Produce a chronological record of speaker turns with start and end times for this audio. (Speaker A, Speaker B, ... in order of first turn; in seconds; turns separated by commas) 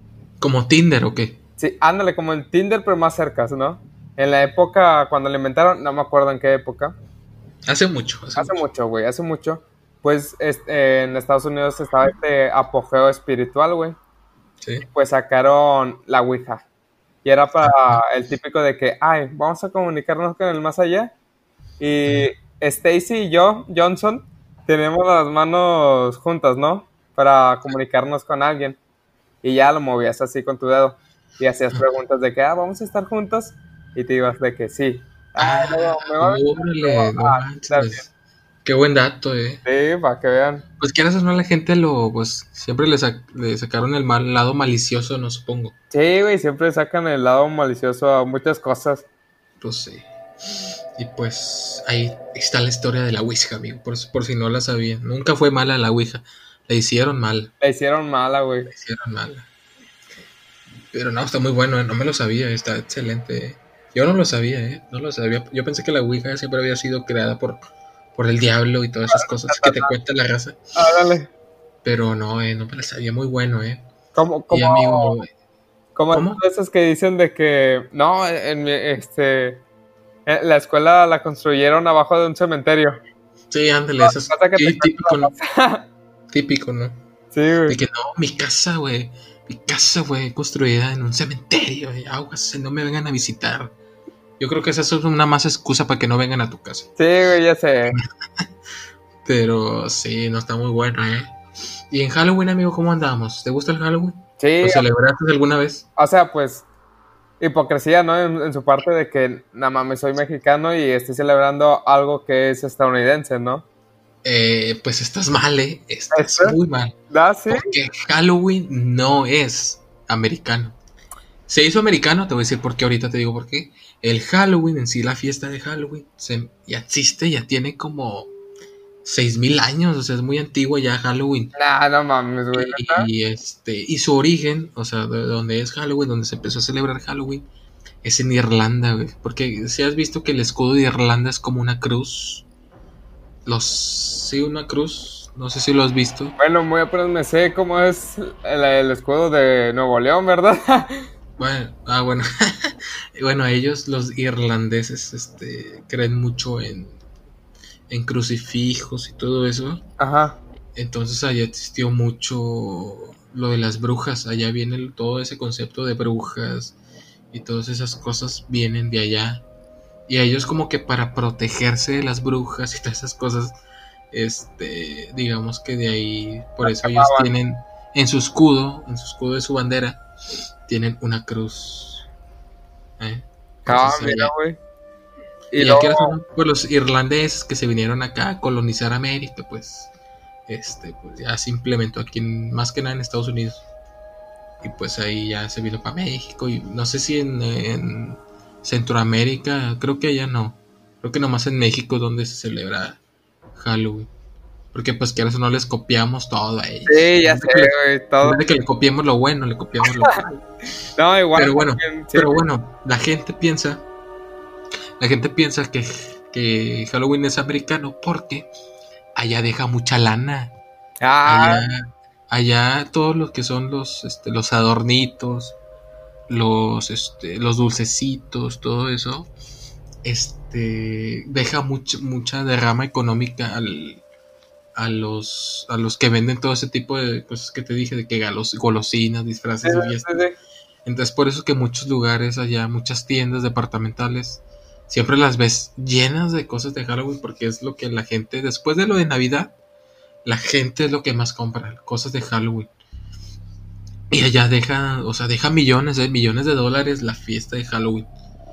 Speaker A: 0.4-1.4, Speaker B: 1.6-7.0, Speaker A: 7.7-8.7, Speaker B: 8.4-14.0, Speaker A: 14.6-14.9, Speaker B: 14.9-16.6, Speaker B: 17.2-21.1, Speaker A: 17.6-18.0, Speaker B: 21.8-28.8, Speaker B: 29.4-38.0, Speaker A: 35.4-38.1, Speaker A: 38.6-39.6, Speaker B: 39.6-40.6, Speaker A: 40.8-45.8, Speaker B: 45.9-49.1, Speaker A: 49.6-50.1, Speaker A: 51.0-57.5, Speaker B: 57.6-58.7, Speaker A: 58.7-59.5, Speaker A: 60.9-67.6, Speaker A: 68.2-70.6, Speaker B: 69.1-70.0, Speaker B: 70.8-71.3, Speaker A: 71.8-73.9, Speaker B: 74.1-75.2, Speaker A: 74.5-75.3, Speaker B: 76.0-79.6, Speaker A: 76.1-76.4, Speaker B: 80.3-83.0, Speaker A: 83.5-85.3, Speaker B: 84.0-85.9, Speaker A: 86.3-87.0, Speaker B: 87.3-87.8, Speaker A: 87.7-93.7, Speaker A: 94.4-96.9, Speaker B: 97.0-98.0, Speaker A: 97.9-98.5, Speaker A: 99.2-101.3, Speaker A: 101.9-105.9, Speaker B: 104.4-104.8, Speaker B: 106.0-106.7, Speaker B: 107.4-113.7, Speaker A: 114.2-117.0, Speaker B: 116.1-116.6, Speaker B: 117.1-117.7, Speaker A: 117.5-120.8, Speaker A: 121.5-128.3, Speaker A: 129.1-131.5, Speaker B: 131.6-133.1, Speaker A: 132.5-137.5, Speaker A: 138.0-142.5, Speaker A: 143.4-146.4, Speaker B: 146.4-151.1, Speaker A: 151.4-157.0, Speaker A: 157.9-159.8, Speaker B: 160.0-160.4, Speaker A: 160.8-166.8, Speaker A: 167.3-169.4, Speaker A: 170.1-173.6, Speaker A: 174.1-180.0, Speaker B: 176.7-177.3, Speaker A: 180.7-182.1, Speaker A: 183.0-184.3, Speaker B: 183.7-184.6, Speaker B: 185.5-186.2, Speaker A: 185.6-189.9, Speaker A: 190.5-193.7, Speaker A: 194.6-203.0, Speaker A: 203.6-204.1, Speaker A: 204.7-210.4, Speaker B: 206.9-208.4, Speaker B: 209.9-210.2, Speaker B: 210.9-212.4, Speaker A: 211.3-213.8, Speaker A: 215.0-218.5, Speaker A: 219.2-220.6, Speaker B: 221.0-221.7, Speaker A: 221.2-225.6, Speaker A: 226.3-229.3, Speaker A: 230.0-234.0, Speaker A: 234.8-240.2, Speaker B: 239.6-240.3, Speaker A: 240.8-249.6, Speaker A: 250.2-252.7, Speaker A: 254.1-258.1